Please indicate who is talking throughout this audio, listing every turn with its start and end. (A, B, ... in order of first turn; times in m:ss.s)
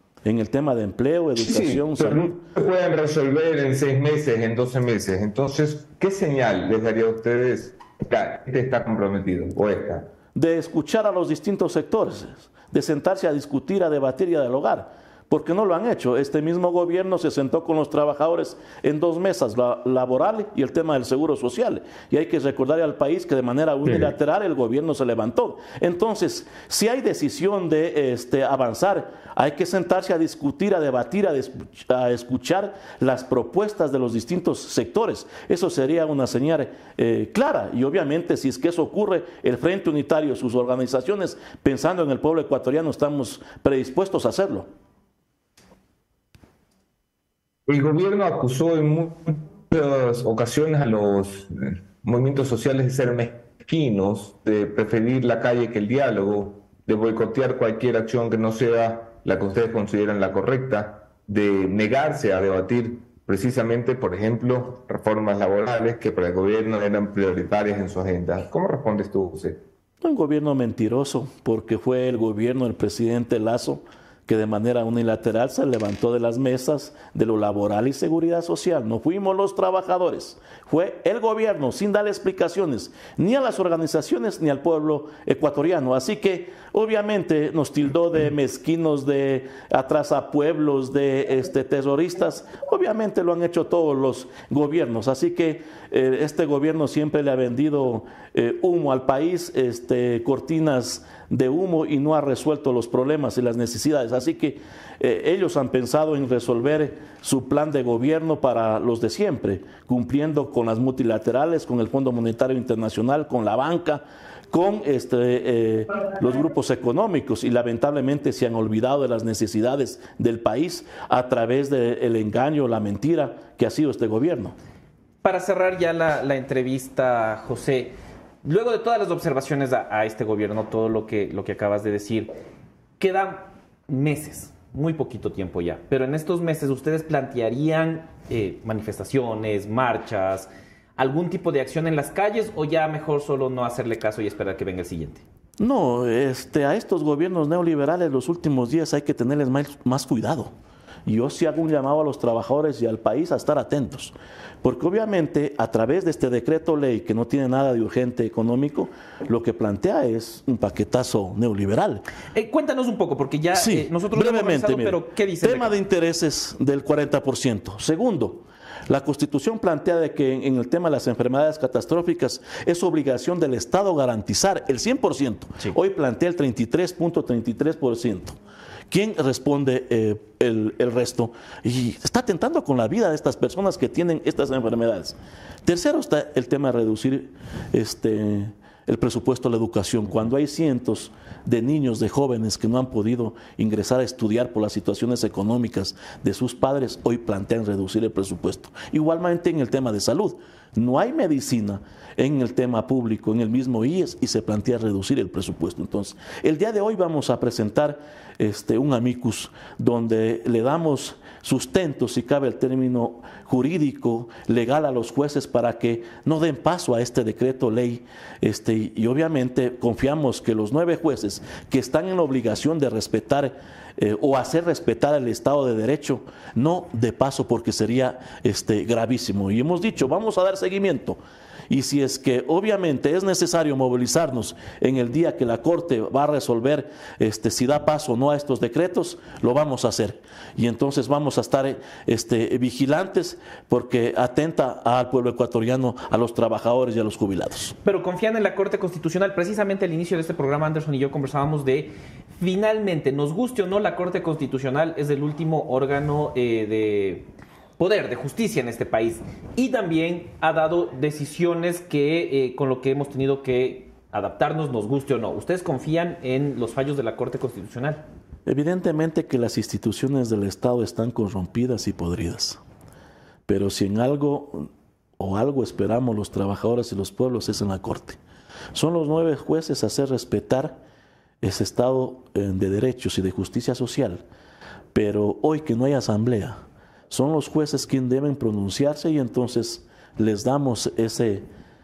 0:00.2-0:02.4 A
0:01.4-0:10.1 B
0:10.3-0:44.7 A
0:23.8-0:24.1 B
0:47.7-1:09.6 B
1:10.0-2:04.6 A
2:05.2-2:12.3 C
2:13.0-2:25.2 C
2:25.6-2:30.5 A
2:31.0-2:42.0 A
2:42.3-2:45.7 C
2:43.5-2:58.4 A
2:58.9-4:07.8 A
4:07.8-4:28.1 C
4:28.4-4:32.6 A
4:33.5-4:38.2 A
4:38.7-4:40.8 A
4:41.4-4:44.2 A
4:44.9-4:51.4 A